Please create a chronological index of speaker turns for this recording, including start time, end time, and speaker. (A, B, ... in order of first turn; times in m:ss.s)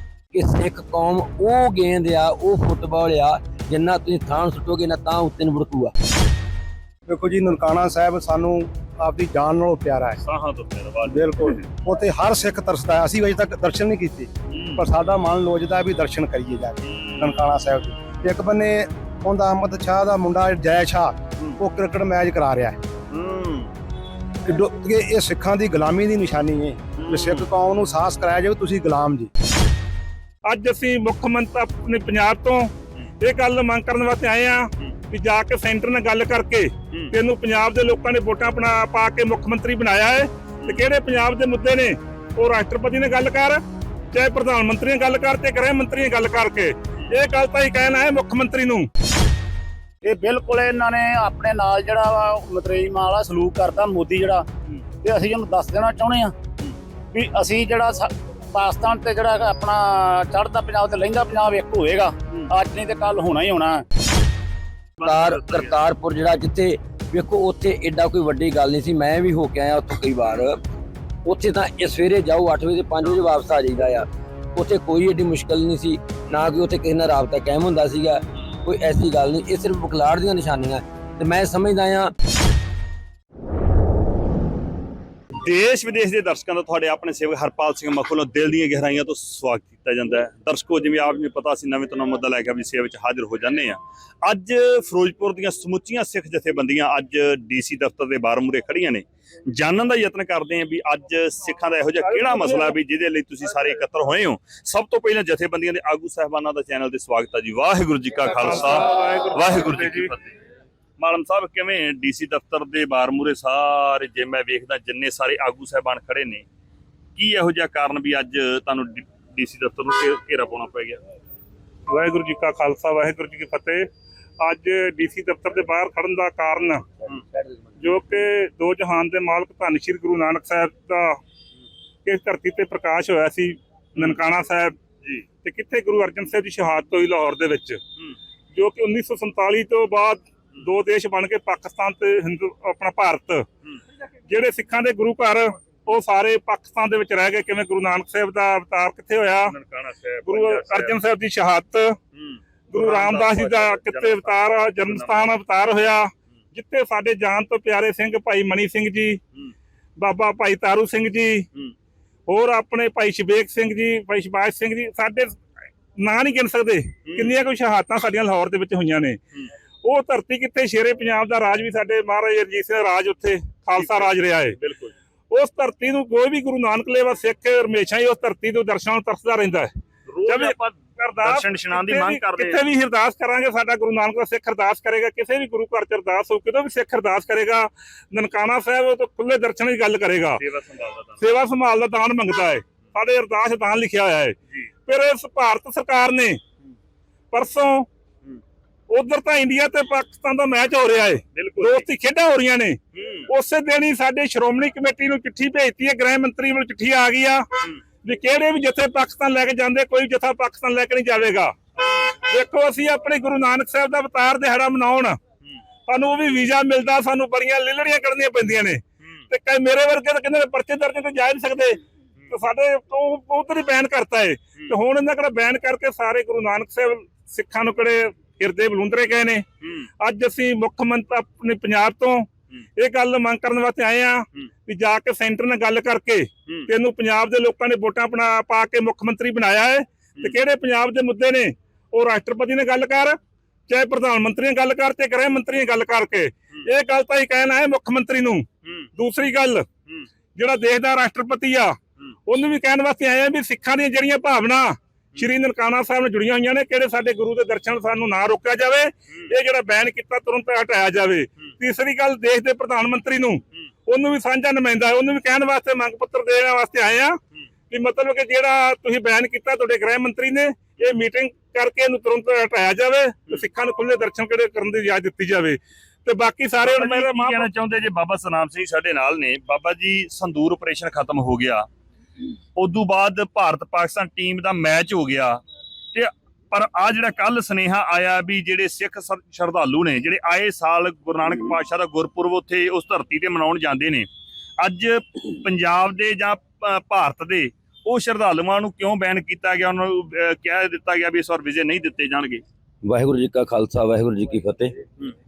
0:00.3-0:05.9 A
0:07.1-0:10.2 B
0:10.2-0:11.7 C
0:11.0-0:22.8 B
0:14.5-0:14.9 C
0:16.8-0:17.5 C
0:23.1-0:23.7 C
0:24.5-0:29.3 B
0:27.0-0:27.5 C
0:30.4-0:43.6 D
0:44.1-0:48.9 D
0:50.2-0:54.4 E
0:55.2-0:56.3 E
0:57.3-1:03.8 E
1:05.0-1:05.8 C
1:05.0-1:10.6 A
1:11.2-1:22.1 A
1:25.4-1:50.3 C
1:42.1-1:42.7 D
1:48.3-1:50.1 D
1:51.0-1:56.4 C
1:57.2-2:01.0 C
2:01.9-2:03.9 D
2:04.4-2:06.8 D
2:07.8-2:11.2 D
2:12.0-2:14.7 D
2:15.4-2:17.8 D
2:18.5-2:23.4 D
2:24.3-2:29.5 D
2:29.4-2:31.0 C
2:30.3-2:32.0 D
2:32.1-2:35.4 C
2:32.7-2:39.2 D
2:40.0-2:41.5 D
2:42.3-2:45.4 D
2:46.0-2:49.2 D
2:47.1-2:47.4 C
2:49.8-2:54.6 D
2:53.8-2:54.9 C
2:55.3-2:59.7 D
3:00.1-3:02.6 C
3:00.3-3:10.4 D
3:10.4-3:11.3 C
3:11.2-3:16.4 D
3:17.3-3:17.9 D
3:18.9-3:27.5 D
3:21.3-3:21.9 C
3:22.9-3:23.3 C
3:28.0-3:31.6 D
3:32.3-3:35.2 D
3:35.9-3:49.4 D
3:49.6-3:49.9 C
3:50.0-4:08.4 D
4:09.0-4:09.7 D
4:10.4-4:27.2 D
4:27.7-4:37.5 D
4:36.6-4:41.7 C
4:42.6-4:45.4 C
4:45.9-5:02.4 C
5:02.8-5:04.8 A